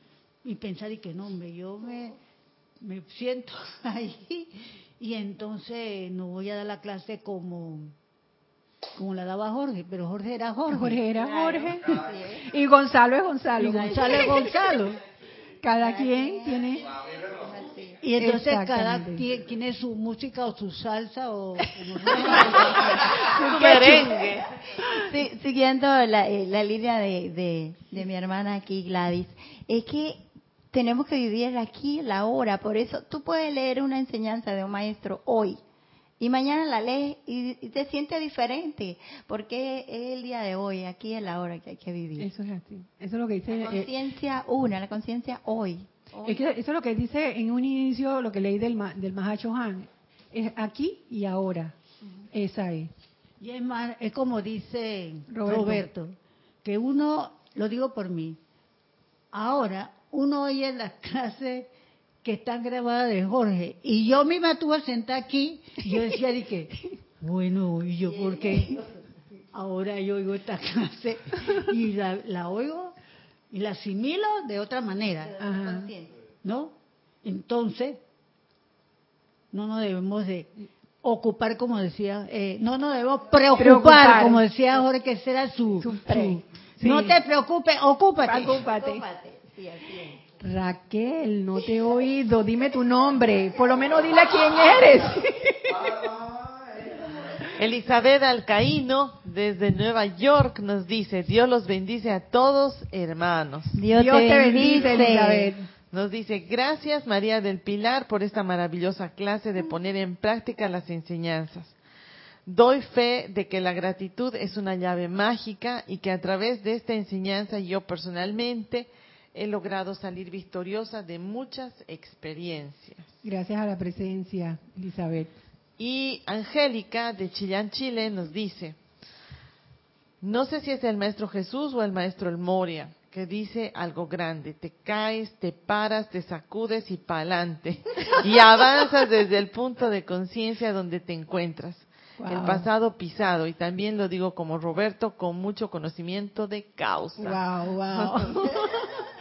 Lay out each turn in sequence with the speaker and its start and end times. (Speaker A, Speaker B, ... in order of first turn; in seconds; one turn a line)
Speaker A: 0.4-2.2
Speaker A: 2.8-7.9
Speaker A: 8.9-11.0
Speaker B: 10.7-14.5
Speaker C: 11.1-12.4
Speaker A: 13.6-15.0
Speaker C: 13.7-14.5
Speaker B: 15.6-16.9
Speaker C: 15.8-18.0
Speaker A: 18.0-23.1
Speaker B: 18.1-19.2
Speaker C: 22.3-35.6
Speaker B: 22.5-24.2
Speaker D: 23.3-24.5
Speaker C: 36.2-42.3
Speaker B: 42.2-43.9
Speaker C: 43.5-46.4
Speaker B: 46.2-51.8
Speaker B: 52.3-52.9
Speaker A: 53.4-58.4
Speaker B: 55.3-55.9
Speaker A: 59.3-61.7
Speaker A: 62.2-68.8
Speaker C: 68.2-68.8
Speaker A: 69.5-73.0
Speaker A: 73.5-75.3
Speaker C: 75.2-76.1
Speaker B: 75.4-75.9
Speaker A: 76.4-78.0
Speaker A: 79.5-88.6
Speaker B: 83.5-84.4
Speaker B: 85.8-87.2
Speaker B: 88.2-89.0
Speaker C: 88.4-90.2
Speaker B: 90.4-96.1
Speaker D: 97.5-103.8
Speaker C: 103.7-105.5
Speaker B: 103.9-105.7
Speaker D: 105.9-111.8
Speaker D: 112.5-123.1
Speaker B: 123.2-125.3
Speaker D: 125.8-128.8
Speaker D: 130.2-147.4
Speaker B: 142.2-142.7
Speaker B: 147.2-148.8